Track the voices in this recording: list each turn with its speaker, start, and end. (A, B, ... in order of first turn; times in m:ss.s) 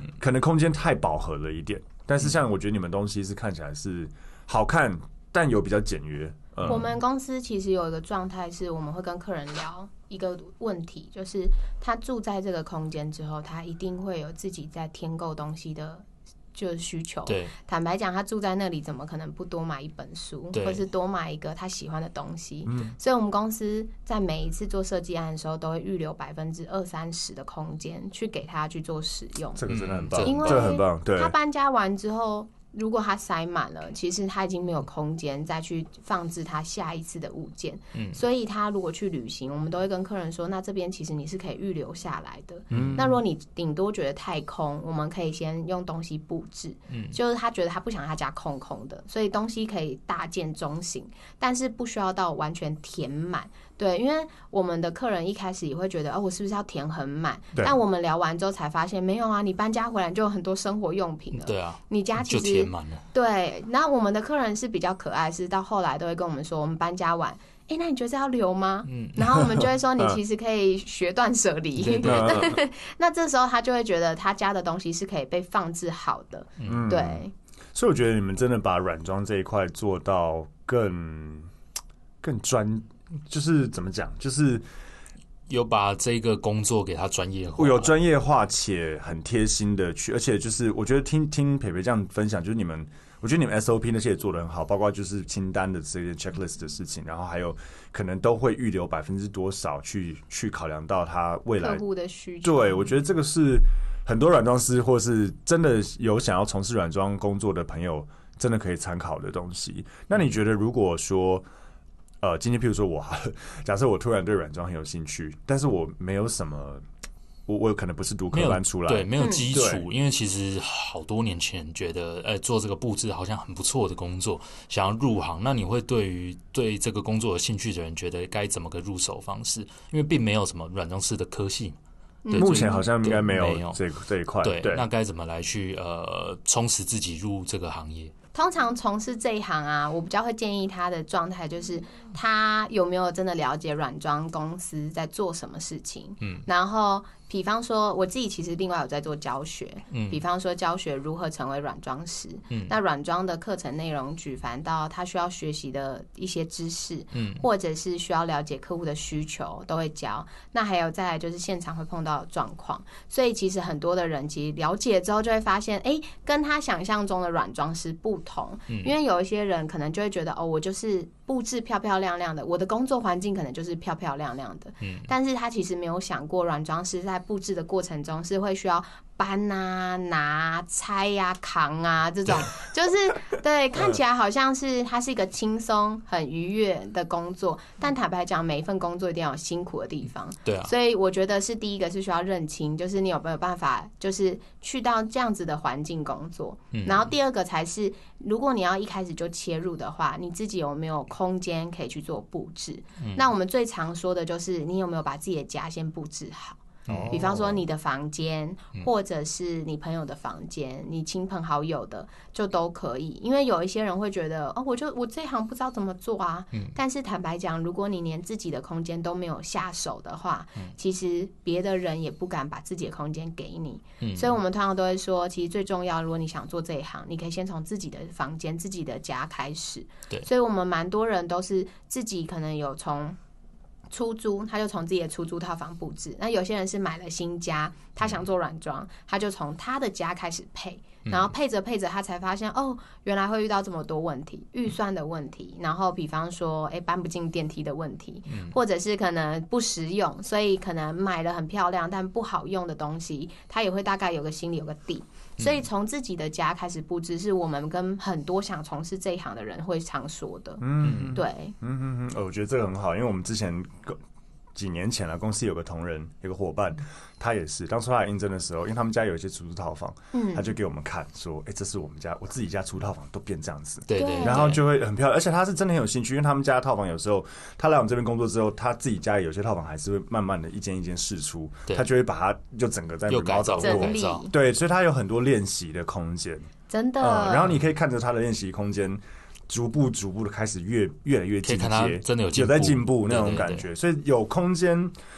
0:00.2-0:06.9 A
0:06.6-0:29.6 B
0:17.3-0:17.5 C
0:20.5-0:20.8 C
0:22.6-0:23.0 A
0:29.6-0:31.3 A
0:29.7-0:30.8 C
0:30.2-1:17.3 B
0:37.9-0:38.2 C
0:42.7-0:43.2 C
0:42.7-0:43.1 A
0:46.9-0:47.2 C
1:01.4-1:03.1 C
1:08.9-1:09.4 C
1:11.8-1:12.5 C
1:12.0-1:12.6 A
1:16.6-1:16.9 C
1:16.6-1:17.2 A
1:17.7-1:21.5 A
1:22.2-1:24.6 A
1:25.5-1:28.0 C
1:27.6-1:41.8 A
1:41.6-1:42.8 B
1:42.4-1:51.5 A
1:52.2-1:56.8 A
1:57.5-1:59.9 A
1:58.3-2:11.8 C
1:59.2-1:59.5 B
2:12.2-2:12.8 B
2:12.3-2:13.8 C
2:12.4-2:14.9 A
2:14.4-2:18.1 C
2:18.3-3:53.2 B
2:29.9-2:30.2 C
2:37.1-2:37.4 C
2:54.8-2:55.1 C
3:10.5-3:10.7 C
3:16.7-3:17.1 C
3:23.0-3:23.2 C
3:26.9-3:27.1 C
3:26.9-3:27.6 A
3:44.0-3:44.4 C
3:53.9-4:21.6 B
4:01.0-4:01.3 C
4:08.3-4:08.6 C
4:15.4-4:15.7 C
4:20.6-4:24.0 A
4:20.8-4:21.2 C
4:24.6-4:46.5 A
4:30.1-4:30.5 B
4:33.9-4:34.6 C
4:33.9-4:34.5 B
4:43.1-4:44.2 C
4:43.6-4:44.3 B
4:46.7-4:47.5 B
4:47.0-4:54.9 A
4:51.4-4:53.7 C